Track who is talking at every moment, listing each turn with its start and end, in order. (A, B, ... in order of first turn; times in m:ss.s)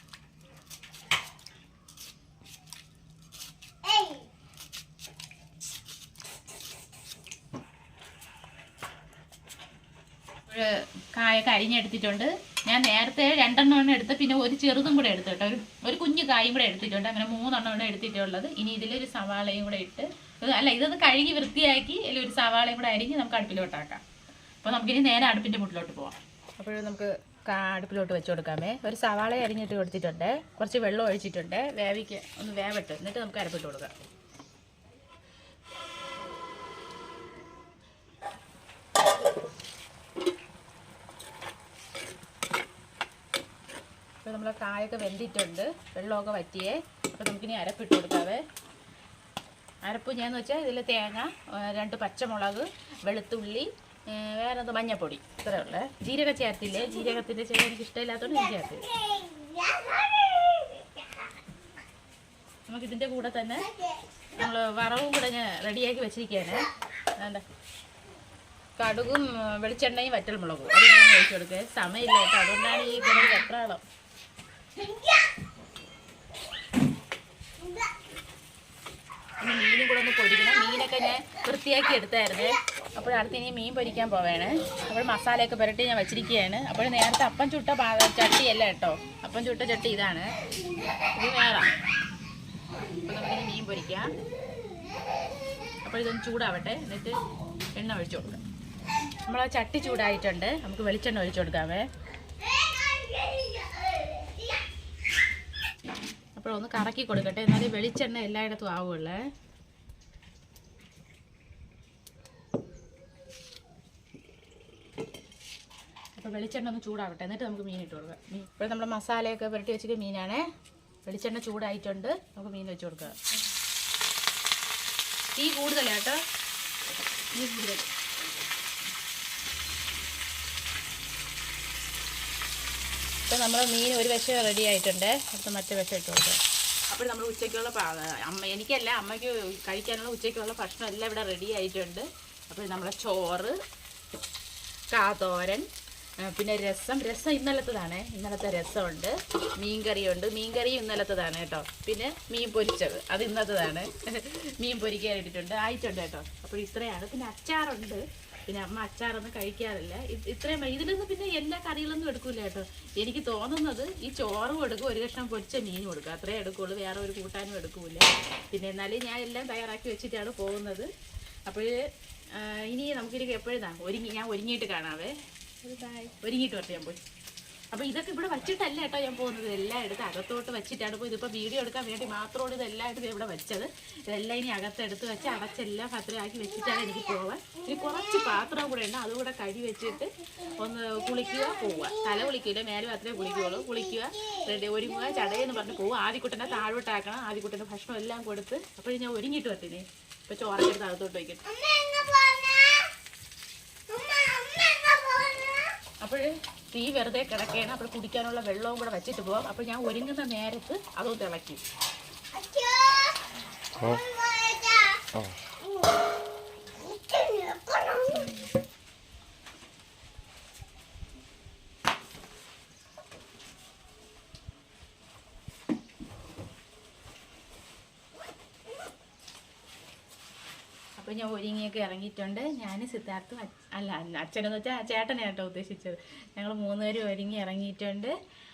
0:03.8-0:04.3 A
0:10.5-0:24.0 B
0:24.6-0:33.9 B
0:44.2-0:48.4 B
0:49.8-0:58.9 B
0:58.7-1:01.3 A
1:02.7-1:03.7 B
1:03.7-1:04.0 A
1:04.4-1:06.6 B
1:07.2-1:07.4 B
1:08.8-1:13.8 B
1:14.8-1:15.3 A
1:17.6-1:17.9 A
1:19.4-1:30.3 B
1:31.0-1:31.7 B
1:32.9-1:34.1 B
1:35.8-1:38.4 B
1:39.2-1:41.9 B
1:42.4-1:44.6 A
1:46.4-1:49.2 B
1:56.2-2:00.5 B
2:01.0-2:03.2 B
2:05.3-2:06.2 B
2:07.3-2:07.9 B
2:13.3-2:23.6 B
2:24.9-2:25.7 B
2:26.2-2:50.9 B
2:51.5-2:51.8 B
2:52.3-2:57.0 B
2:57.7-3:21.5 B
3:07.7-3:08.0 A
3:10.2-3:12.2 A
3:13.3-3:15.6 A
3:21.5-3:22.9 A
3:23.9-3:25.8 A
3:26.0-3:31.6 B
3:32.3-3:36.0 A
3:36.8-3:38.4 A
3:51.0-3:58.1 B